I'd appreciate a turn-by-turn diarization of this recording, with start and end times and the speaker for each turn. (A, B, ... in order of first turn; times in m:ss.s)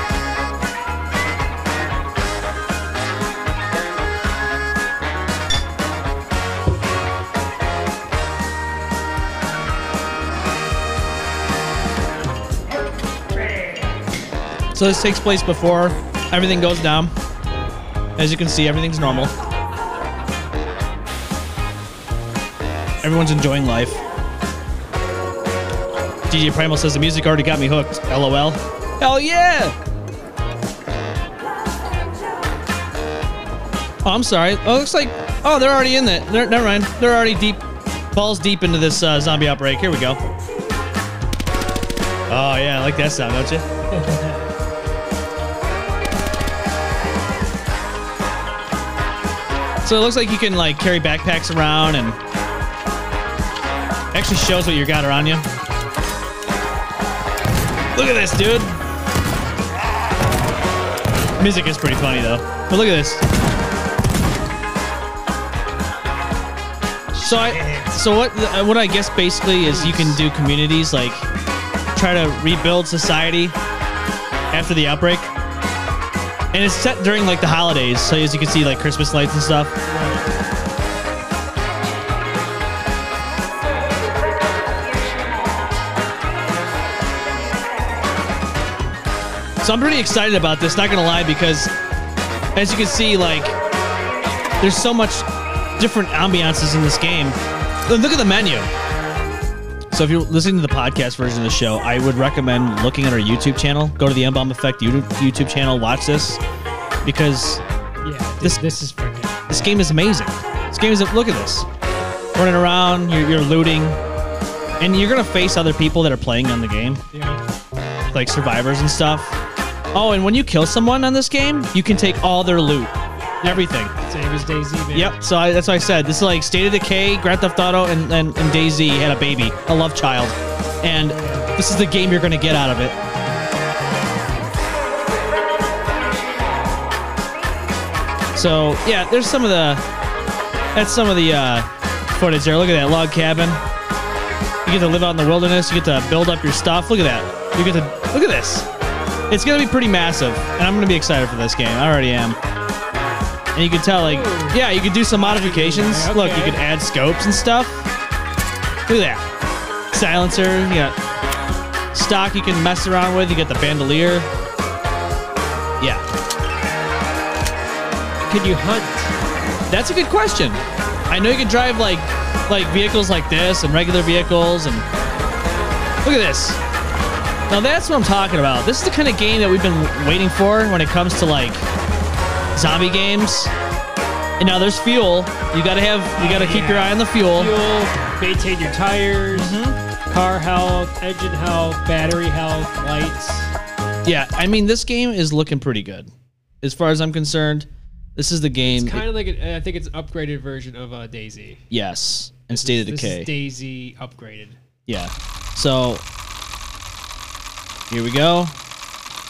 0:14.7-0:17.1 A
0:18.2-0:19.3 A
0:23.0-0:24.0 A
0:26.3-0:29.8 A
0:34.0-0:40.2 A
0:42.3-0:43.7 A
0:44.0-0:44.4 B
0:49.8-0:52.2 A
0:54.1-0:55.5 A
0:58.0-0:58.8 A
1:01.4-1:03.2 A
1:07.2-1:08.0 B
1:07.2-1:11.3 A
1:09.6-1:10.2 B
1:12.0-1:13.6 A
1:14.5-1:15.3 A
1:16.5-1:19.8 A
1:19.9-1:20.2 B
1:29.6-1:31.7 A
1:32.6-1:33.6 A
1:34.6-1:35.3 A
1:35.8-1:38.7 A
1:39.9-1:46.4 A
1:47.0-1:47.6 A
1:48.0-1:49.4 B
1:49.5-1:51.7 A
1:52.4-1:54.0 A
1:54.8-1:57.0 A
1:57.1-1:57.4 B
1:58.1-1:59.4 A
1:59.9-2:03.9 A
2:03.5-2:05.2 B
2:04.9-2:13.0 A
2:11.1-2:11.5 B
2:18.4-2:19.8 A
2:20.8-2:23.6 A
2:24.7-2:28.7 A
2:29.3-2:32.4 A
2:33.6-2:37.9 A
2:34.0-2:36.6 B
2:38.9-2:39.2 A
2:39.9-2:41.0 A
2:41.9-2:44.3 A
2:45.8-2:46.0 A
2:48.3-2:49.1 B
2:49.7-2:54.9 A
2:56.0-2:56.6 A
2:57.5-3:01.6 A
3:02.6-3:03.5 A
3:04.4-3:07.5 A
3:06.2-3:13.5 B
3:09.3-3:09.8 A
3:14.0-3:16.1 A
3:16.6-3:19.0 A
3:18.6-3:21.6 B
3:21.7-3:23.3 A
3:22.5-3:24.6 B
3:24.9-3:26.0 A
3:27.9-3:28.5 A